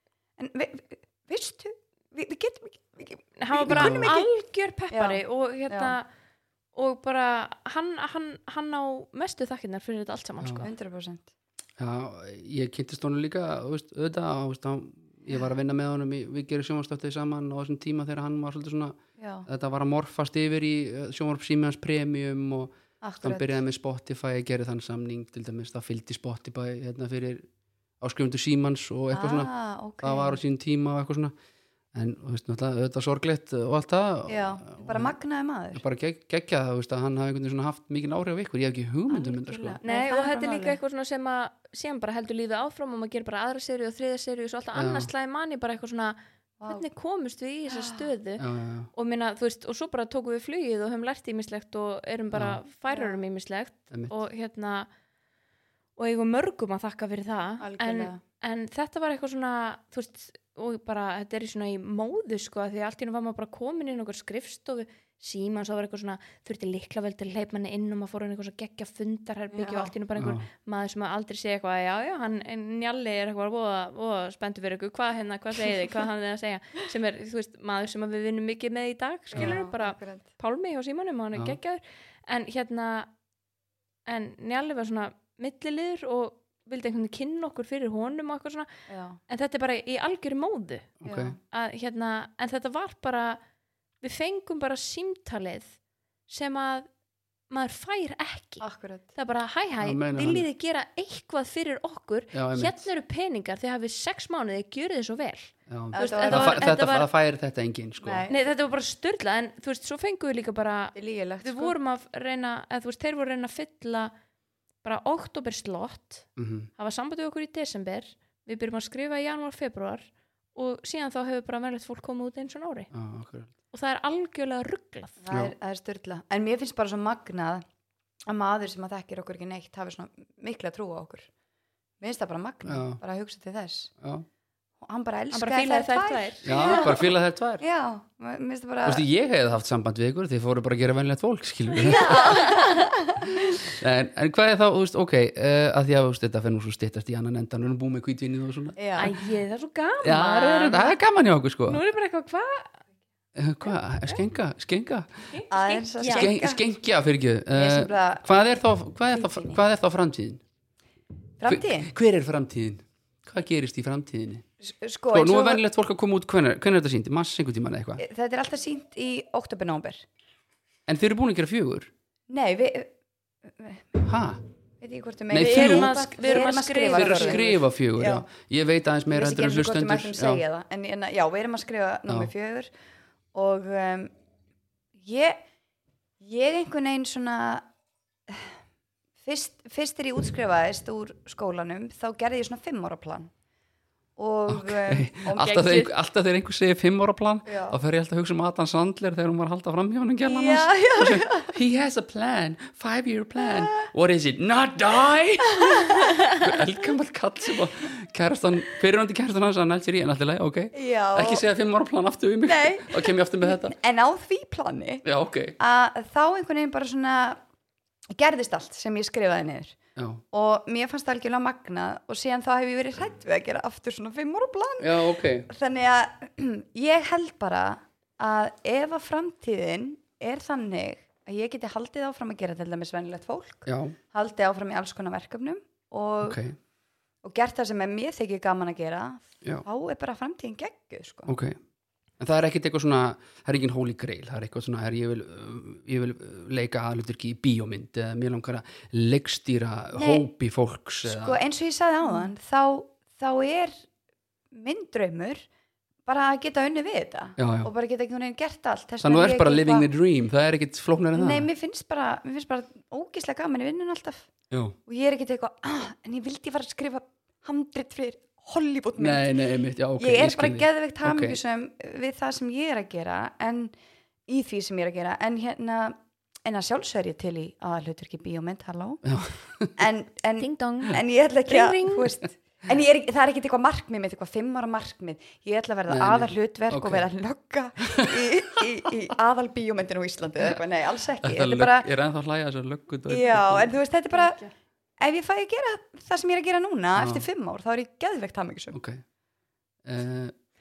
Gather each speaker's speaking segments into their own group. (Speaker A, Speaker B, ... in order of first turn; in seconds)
Speaker A: 0.4-4.3, 4.9-6.0, 10.6-11.3, 19.2-19.5, 23.0-23.6, 29.1-30.4, 34.3-35.8, 39.1-40.8, 47.7-48.1, 52.9-53.2, 57.6-58.2, 69.5-69.9, 79.3-80.3, 88.9-89.2, 91.0-91.4, 98.6-99.1, 105.9-106.8, 108.0-108.4, 110.9-111.8, 125.2-127.6, 128.3-131.3, 132.0-133.9, 134.8-139.0, 141.8-143.6, 148.8-149.1, 155.5-156.6, 157.5-158.3, 159.1-159.6, 161.4-161.9, 164.6-165.6, 168.0-170.1, 172.3-172.9, 173.4-174.0, 174.8-178.2, 179.1-182.7, 183.3-184.1, 185.0-185.4, 186.2-187.7, 188.3-188.6, 189.2-193.3, 194.2-195.6, 197.4-197.8, 200.2-201.6, 205.6-206.1, 210.7-211.4, 212.4-215.0, 215.6-217.4, 218.1-219.8, 220.3-236.4, 237.2-241.3, 249.9-250.3, 251.0-253.8, 254.5-255.4, 256.1-259.9, 261.1-264.3, 264.9-269.4, 270.0-273.7, 274.3-279.0, 279.8-291.9, 293.1-294.4, 295.0-298.8
Speaker B: 3.4-6.1, 6.7-10.7, 39.8-54.9, 56.0-83.1, 84.0-88.7, 89.3-90.9, 91.5-93.4, 94.0-95.7, 96.3-96.9, 97.5-107.1, 108.3-114.1, 114.8-122.9, 123.7-125.2, 135.3-136.9, 141.8-142.9, 149.0-151.0, 151.7-152.8, 155.3-156.3, 175.4-177.5, 195.3-195.9, 280.4-282.1, 294.1-294.4
Speaker C: 3.7-4.1, 11.8-27.5, 28.0-29.5, 30.0-31.3, 31.9-35.1, 35.7-39.8, 44.7-45.1, 48.4-48.9, 52.3-52.6, 70.2-70.5, 91.0-91.3, 99.8-100.5, 102.3-102.9, 105.7-108.3, 116.4-116.7, 122.9-123.5, 132.7-133.0, 136.4-137.6, 138.8-142.4, 143.6-149.2, 150.0-151.8, 153.3-155.2, 156.1-160.4, 161.5-164.4, 165.1-168.0, 170.9-171.9, 174.0-174.4, 175.3-176.0, 176.9-180.4, 194.5-213.7, 215.0-215.6, 219.9-220.2, 224.8-225.5, 233.7-234.0, 236.2-236.6, 241.3-241.6, 242.2-251.4, 257.4-257.7, 259.0-261.5, 264.5-264.8, 269.0-271.4, 279.0-279.7, 285.9-287.1, 287.9-288.2, 291.2-293.7, 296.9-297.2, 298.7-299.0, 299.8-300.4